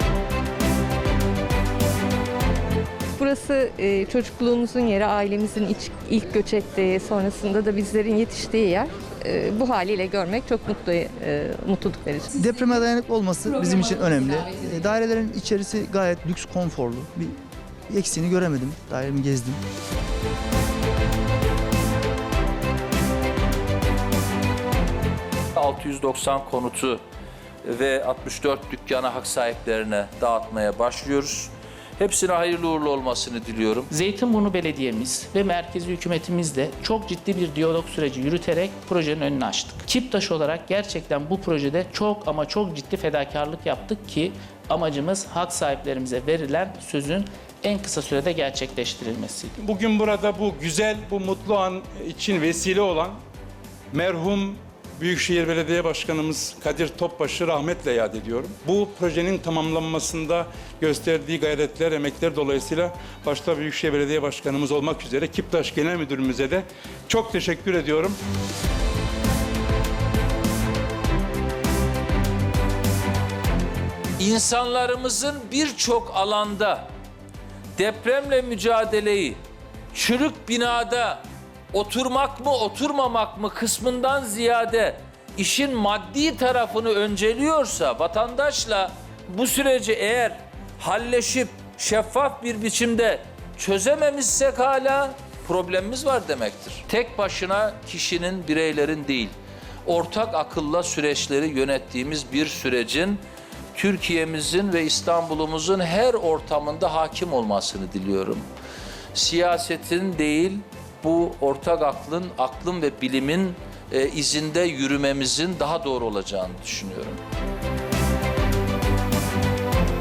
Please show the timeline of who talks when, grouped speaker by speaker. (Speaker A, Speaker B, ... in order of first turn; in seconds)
Speaker A: 3.1-12.3
Speaker B: 12.3-17.4, 17.9-19.6
Speaker C: 25.6-27.0, 27.6-33.9, 74.2-76.9, 77.8-79.4, 79.9-99.3, 99.8-103.2, 103.7-108.5, 109.1-117.2
Speaker D: 33.9-49.5
Speaker E: 49.6-53.2, 53.9-68.2